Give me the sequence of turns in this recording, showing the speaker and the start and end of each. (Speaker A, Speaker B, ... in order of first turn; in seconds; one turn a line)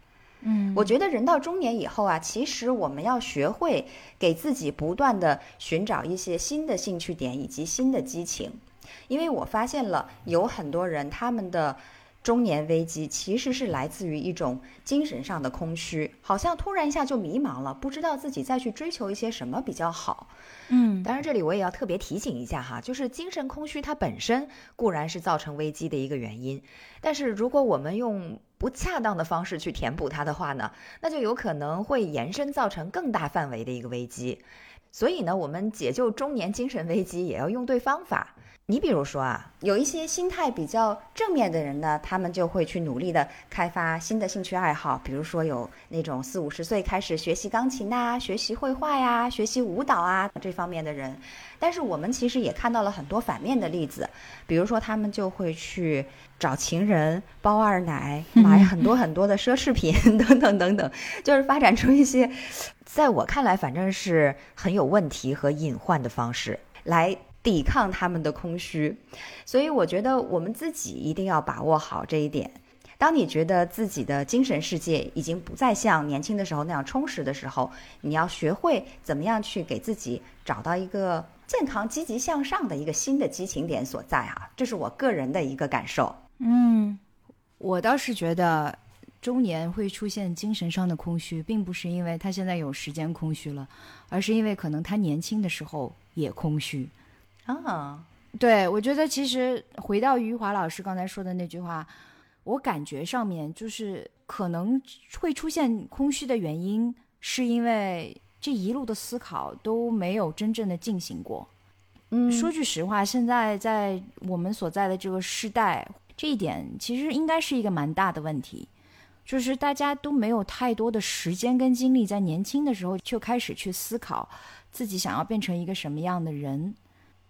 Speaker A: 0.4-0.9
Speaker B: 0.7-20.3
Speaker A: 20.7-21.1
Speaker B: 21.0-86.2
Speaker A: 58.4-58.7
Speaker A: 86.4-87.0
Speaker A: 87.6-96.9
Speaker B: 97.5-98.0
Speaker A: 98.4-101.9
Speaker A: 102.4-111.5
Speaker B: 112.1-112.5
Speaker A: 112.3-118.7
Speaker A: 119.3-126.8